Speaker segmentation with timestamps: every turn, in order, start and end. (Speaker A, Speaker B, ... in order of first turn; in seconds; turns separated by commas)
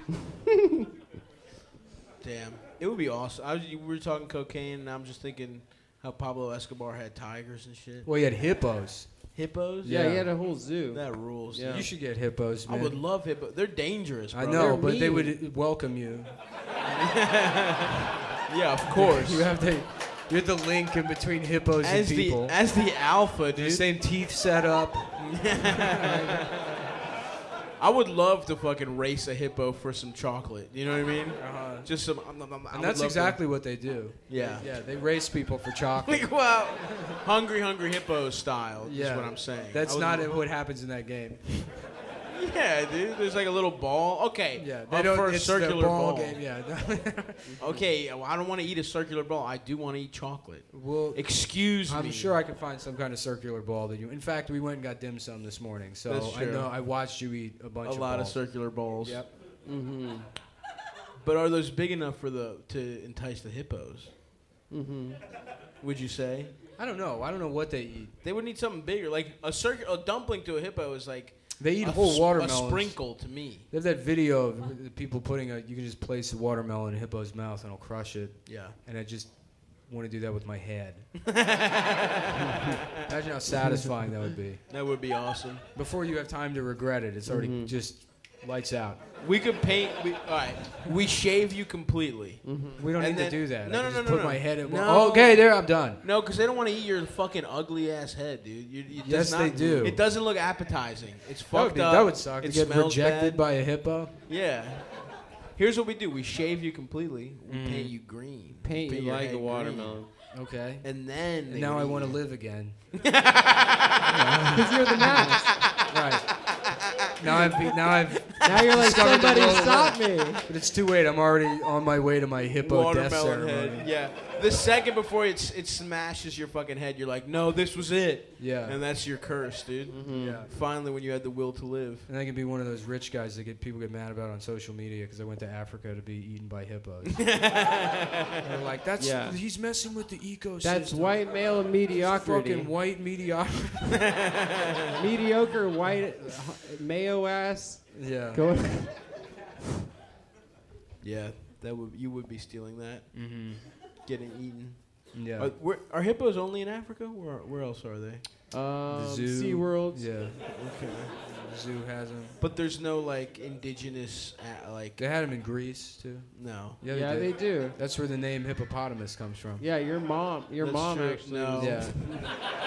Speaker A: 2.2-8.1, Speaker B: 8.0-10.3, Speaker A: 9.3-9.9, Speaker C: 9.8-11.9, Speaker A: 10.9-12.1, Speaker B: 11.7-13.0, Speaker A: 12.6-14.8, Speaker B: 14.3-16.4, Speaker C: 14.5-15.3, Speaker A: 16.9-19.5, Speaker B: 18.9-22.6, Speaker A: 21.8-23.8, Speaker B: 23.5-26.5, Speaker A: 25.2-26.9, Speaker A: 27.8-33.8, Speaker B: 31.4-31.9, Speaker B: 32.7-37.2, Speaker A: 34.3-34.7, Speaker A: 36.0-40.4, Speaker B: 38.8-41.8, Speaker A: 42.3-46.4, Speaker B: 44.6-47.6, Speaker C: 47.4-47.8, Speaker A: 47.6-52.4, Speaker B: 50.7-59.3, Speaker A: 56.1-56.7, Speaker A: 57.8-59.2, Speaker C: 59.6-60.3, Speaker A: 61.2-64.1, Speaker C: 64.7-65.2, Speaker A: 65.8-66.5, Speaker B: 66.8-68.1, Speaker A: 68.2-73.7, Speaker B: 71.6-73.1, Speaker B: 73.7-81.1, Speaker A: 78.5-78.8, Speaker A: 81.2-82.8, Speaker B: 83.0-84.6, Speaker C: 83.6-83.9, Speaker A: 84.7-85.6, Speaker B: 85.7-89.0, Speaker C: 87.3-87.7, Speaker A: 89.2-103.4, Speaker C: 92.4-92.8, Speaker B: 92.8-96.0, Speaker B: 99.0-100.0, Speaker C: 99.5-99.9, Speaker B: 101.5-104.1, Speaker A: 104.3-112.4, Speaker B: 107.5-107.9, Speaker C: 108.6-110.1, Speaker B: 110.3-112.8, Speaker A: 112.9-114.1, Speaker B: 114.1-116.5, Speaker C: 114.5-115.6, Speaker A: 115.0-115.8, Speaker B: 117.2-123.9, Speaker A: 117.2-118.4, Speaker C: 118.4-120.5, Speaker A: 122.6-132.1, Speaker B: 128.4-128.8, Speaker C: 129.9-130.4, Speaker B: 130.1-130.5, Speaker B: 132.1-137.3, Speaker A: 137.1-138.4, Speaker B: 138.4-144.1, Speaker C: 139.0-139.4, Speaker C: 140.6-142.7, Speaker A: 143.9-144.9, Speaker C: 144.9-149.0, Speaker B: 147.9-148.4, Speaker A: 151.0-158.2, Speaker B: 153.1-153.7, Speaker B: 155.1-155.5, Speaker C: 158.5-160.1, Speaker B: 158.9-160.4, Speaker A: 160.4-161.1, Speaker B: 161.2-162.4, Speaker A: 162.4-165.0, Speaker B: 165.0-169.6, Speaker A: 166.3-166.8, Speaker C: 166.8-167.8, Speaker C: 169.6-172.3, Speaker A: 170.6-171.9, Speaker B: 171.6-172.4